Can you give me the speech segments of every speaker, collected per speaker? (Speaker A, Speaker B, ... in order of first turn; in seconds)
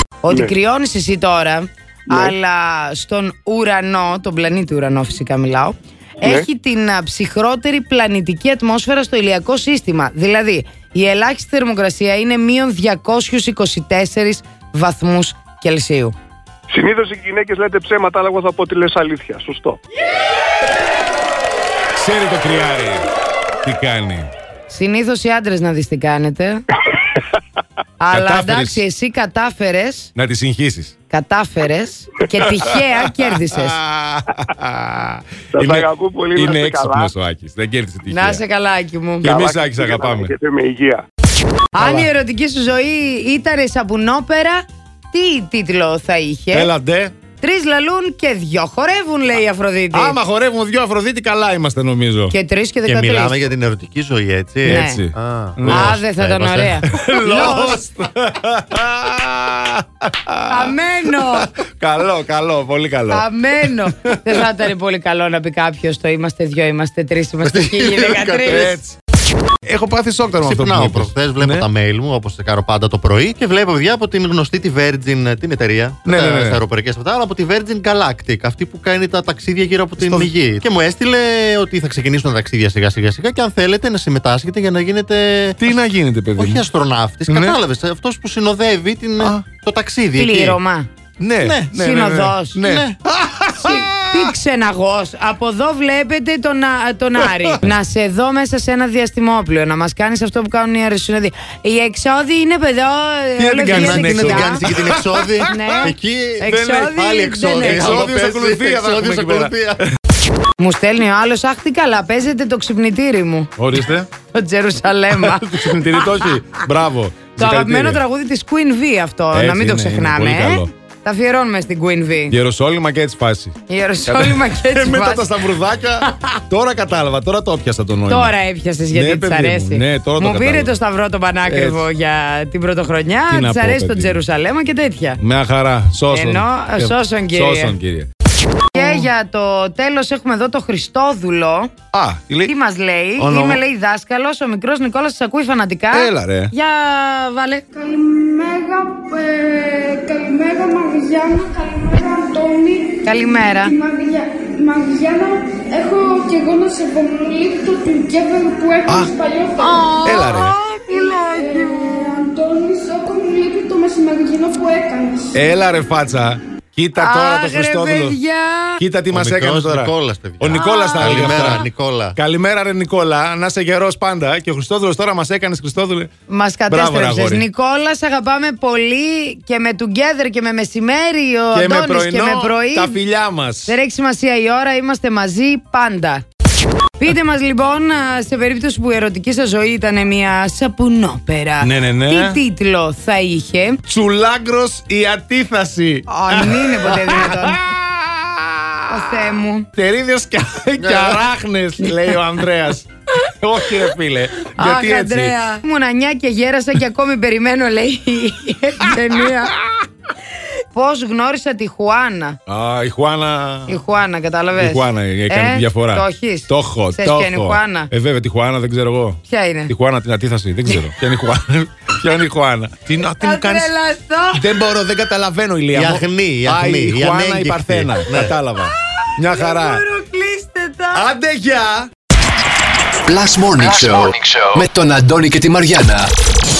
Speaker A: 0.2-16.1, 24.7-26.6, 28.0-30.1, 31.1-33.8, 38.1-39.3, 41.7-46.7, 47.4-50.2, 52.3-53.4, 54.6-55.0, 55.6-57.9, 60.5-61.5, 63.1-68.8, 90.2-90.9, 91.7-92.6, 93.5-104.6, 105.5-108.1, 110.6-113.5, 114.3-116.6, 117.4-122.3, 123.7-125.3, 126.0-126.4, 128.1-135.2, 136.1-137.7, 138.7-141.7, 142.4-147.6, 153.0-153.8, 159.6-162.0, 166.9-168.8, 170.5-171.5, 176.3-183.0, 183.7-186.2, 187.0-193.8, 196.1-197.6, 198.9-199.7, 201.8-202.2, 204.5-209.6, 210.7-212.4, 213.7-217.9, 219.3-219.7, 223.2-224.4, 228.6-231.1
Speaker B: 16.7-19.8, 35.5-37.1, 39.2-41.0
Speaker C: 16.7-17.1, 233.0-236.1
Speaker D: 21.9-23.1, 23.6-24.3, 28.1-28.8, 30.1-30.9, 32.6-38.4, 39.2-40.3, 41.8-42.1, 46.5-47.1, 49.9-52.3, 54.6-56.0, 56.8-64.4, 68.4-69.0, 69.6-71.7, 76.0-76.6, 80.0-80.3, 85.6-86.6, 87.3-87.6, 89.2-89.4, 91.2-94.3, 97.2-97.6, 103.4-105.9, 106.5-109.9, 113.6-114.1, 115.1-118.0, 119.3-120.7, 122.3-123.5, 124.1-128.3, 128.9-130.7, 131.4-131.8, 133.3-134.2, 135.2-138.1, 138.7-139.0, 141.9-142.5, 143.2-143.6, 145.9-146.5, 158.9-159.1, 160.0-160.5, 165.3-168.2, 168.8-176.1, 176.7-177.4, 181.5-183.8, 191.6-192.4, 193.9-198.9, 199.7-205.3, 212.5-213.8, 214.6-223.7, 224.3-229.8, 230.9-231.9
Speaker E: 52.9-56.9, 67.4-68.6, 70.4-85.6, 86.4-90.6, 91.4-91.7, 92.6-93.0, 103.7-109.8, 169.1-172.2, 200.8-201.2, 225.7-228.3
Speaker F: 147.7-153.0, 153.6-159.9, 160.9-165.3